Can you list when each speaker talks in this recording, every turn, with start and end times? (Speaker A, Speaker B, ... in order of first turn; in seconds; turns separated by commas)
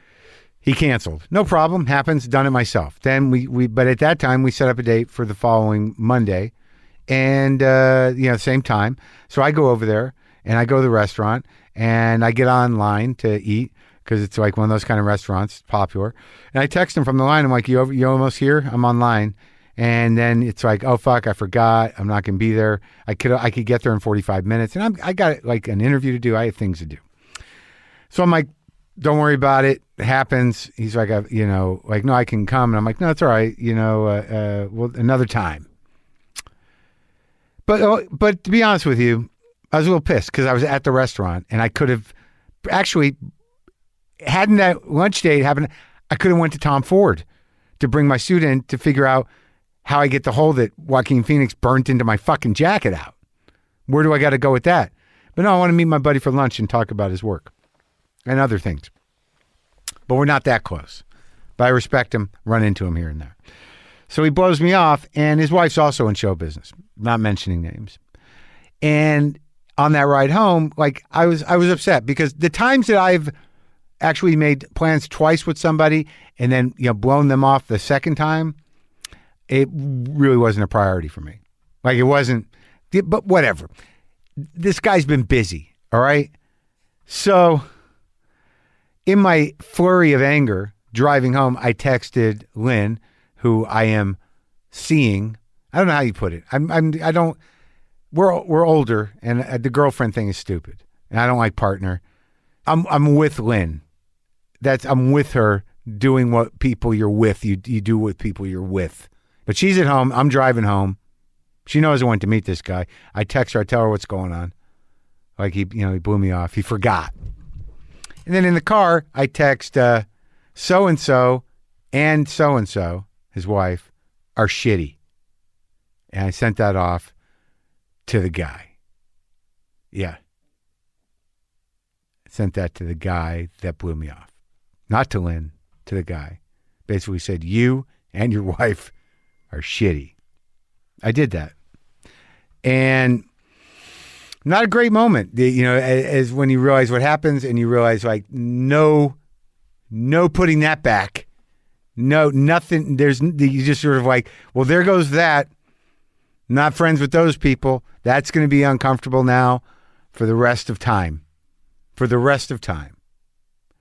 Speaker A: 0.6-6.5, Speaker A: 7.1-27.0, Speaker A: 28.1-35.7, Speaker A: 37.7-42.1, Speaker A: 42.6-43.2, Speaker A: 44.2-47.2, Speaker A: 47.8-49.3, Speaker A: 49.9-53.1, Speaker A: 53.9-57.5, Speaker A: 58.3-58.9, Speaker A: 60.1-61.0, Speaker A: 61.6-63.4, Speaker A: 64.1-68.0, Speaker A: 68.8-73.3, Speaker A: 74.0-78.6, Speaker A: 79.5-83.7, Speaker A: 84.5-86.3, Speaker A: 87.1-87.6, Speaker A: 89.1-94.2, Speaker A: 94.7-97.4, Speaker A: 98.1-102.0, Speaker A: 102.7-103.8, Speaker A: 104.6-111.0, Speaker A: 111.7-114.5, Speaker A: 115.4-117.1, Speaker A: 118.3-125.0, Speaker A: 126.1-127.1, Speaker A: 128.1-128.7, Speaker A: 129.9-130.2, Speaker A: 132.3-134.3, Speaker A: 134.9-138.9, Speaker A: 139.5-140.2, Speaker A: 141.0-141.5, Speaker A: 142.6-143.2, Speaker A: 144.4-149.2, Speaker A: 149.9-151.3, Speaker A: 152.0-155.5, Speaker A: 156.5-159.6, Speaker A: 160.1-161.2, Speaker A: 162.0-163.0